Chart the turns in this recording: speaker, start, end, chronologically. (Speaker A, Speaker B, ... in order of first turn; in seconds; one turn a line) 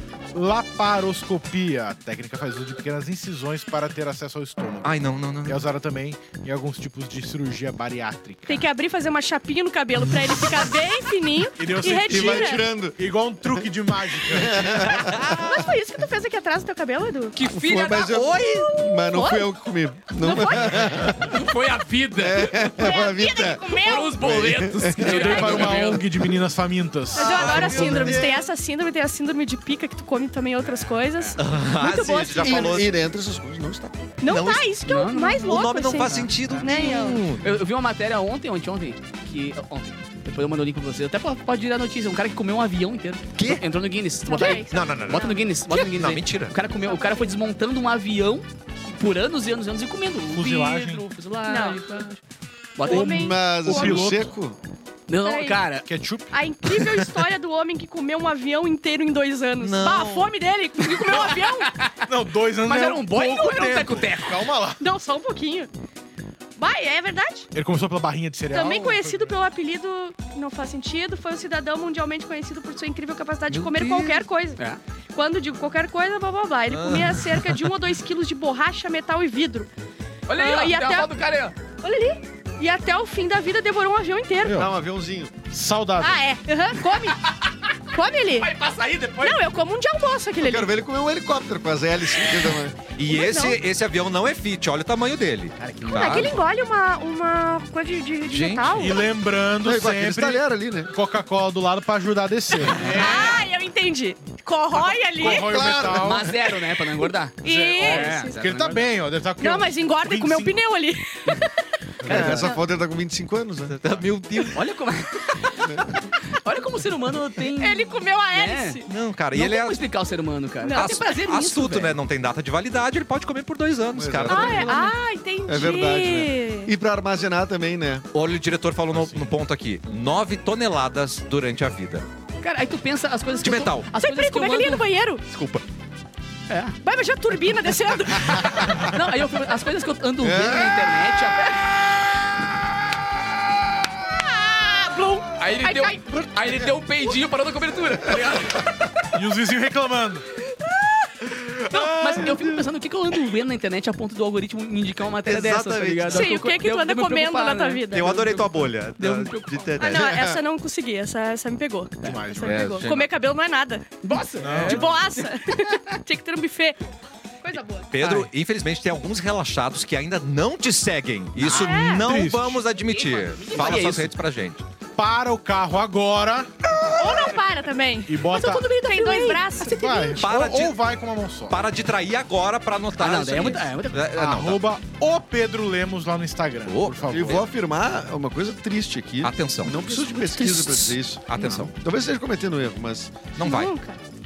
Speaker A: 0.3-8.6
Speaker B: 4.8-5.6
Speaker C: 8.5-12.6
Speaker A: 11.6-14.9
Speaker D: 12.1-13.0
Speaker D: 14.2-15.7
Speaker C: 15.1-17.4
Speaker E: 17.4-18.2
Speaker D: 17.4-21.3
Speaker B: 18.1-18.7
Speaker C: 18.7-19.5
Speaker C: 20.2-20.9
Speaker E: 21.0-23.0
Speaker D: 22.2-25.8
Speaker C: 22.8-24.2
Speaker E: 23.8-26.1
Speaker A: 25.0-28.4
Speaker C: 27.1-32.9
Speaker B: 27.2-28.1
Speaker D: 27.4-28.3
Speaker E: 30.7-31.4
Speaker B: 31.4-32.9
Speaker D: 32.4-34.1
Speaker C: 34.2-37.2
Speaker B: 34.3-34.8
Speaker E: 34.9-36.7
Speaker B: 35.4-37.5
Speaker E: 37.4-52.2
Speaker B: 43.4-43.6
Speaker C: 44.3-45.5
Speaker B: 44.4-46.5
Speaker C: 46.8-47.3
Speaker A: 50.3-51.1
Speaker C: 51.5-51.8
Speaker E: 52.8-53.2
Speaker C: 52.8-54.1
Speaker A: 52.9-54.3
Speaker D: 52.9-54.6
Speaker E: 55.1-55.9
Speaker C: 55.2-55.6
Speaker A: 55.9-56.9
Speaker C: 56.3-61.7
Speaker B: 59.6-60.4
Speaker E: 60.8-62.0
Speaker A: 62.1-64.8
Speaker E: 62.6-64.4
Speaker C: 64.8-65.7
Speaker C: 66.6-67.5
Speaker A: 67.5-69.3
Speaker C: 68.5-74.6
Speaker B: 73.5-74.2
Speaker C: 75.1-79.7
Speaker B: 76.7-77.6
Speaker E: 80.3-81.6
Speaker C: 80.4-81.2
Speaker C: 81.8-84.7
Speaker A: 84.4-84.7
Speaker D: 84.5-85.3
Speaker A: 85.5-86.2
Speaker C: 86.0-87.3
Speaker C: 87.9-88.5
Speaker E: 88.3-89.4
Speaker C: 89.2-90.7
Speaker D: 90.4-92.8
Speaker B: 93.0-96.4
Speaker C: 93.1-93.6
Speaker E: 95.6-96.3
Speaker C: 95.9-99.1
Speaker B: 98.3-98.8
Speaker A: 98.7-103.4
Speaker D: 99.6-100.9
Speaker C: 102.8-105.7
Speaker A: 105.2-106.3
Speaker D: 105.2-106.3
Speaker E: 106.0-108.8
Speaker C: 107.4-108.4
Speaker A: 107.5-110.5
Speaker C: 109.4-111.5
Speaker D: 112.0-114.0
Speaker E: 112.1-112.5
Speaker A: 112.1-112.5
Speaker C: 112.2-112.6
Speaker B: 113.7-114.6
Speaker E: 114.5-115.7
Speaker D: 115.7-115.9
Speaker E: 116.3-122.0
Speaker C: 117.6-118.9
Speaker B: 118.9-119.8
Speaker C: 120.6-120.9
Speaker B: 120.7-124.7
Speaker D: 123.9-128.1
Speaker C: 124.3-126.7
Speaker B: 128.1-132.1
Speaker A: 128.9-129.3
Speaker E: 132.4-134.8
Speaker B: 133.4-133.9
Speaker C: 133.4-135.2
Speaker B: 135.3-135.6
Speaker E: 136.5-136.8
Speaker C: 136.8-138.9
Speaker E: 138.4-141.6
Speaker D: 140.2-140.9
Speaker C: 144.2-146.1
Speaker E: 145.4-148.7
Speaker A: 149.1-150.3
Speaker B: 151.5-152.5
Speaker E: 151.7-159.8
Speaker B: 155.2-156.3
Speaker C: 156.1-158.1
Speaker B: 157.9-160.3
Speaker C: 159.8-163.9
Speaker D: 160.0-160.4
Speaker A: 162.0-162.9
Speaker B: 162.4-163.1
Speaker E: 164.0-165.7
Speaker A: 164.4-165.0
Speaker C: 164.7-166.8
Speaker C: 167.4-167.9
Speaker B: 167.9-174.6
Speaker A: 171.4-172.6
Speaker C: 171.4-172.1
Speaker E: 172.8-174.1
Speaker A: 175.0-177.3
Speaker C: 176.8-180.2
Speaker A: 178.1-178.8
Speaker E: 178.5-179.5
Speaker A: 179.6-181.6
Speaker B: 180.2-180.8
Speaker B: 181.5-184.6
Speaker E: 183.0-184.0
Speaker A: 184.1-187.5
Speaker B: 186.7-187.4
Speaker D: 187.1-193.2
Speaker B: 189.2-191.7
Speaker B: 193.4-193.7
Speaker C: 193.4-194.0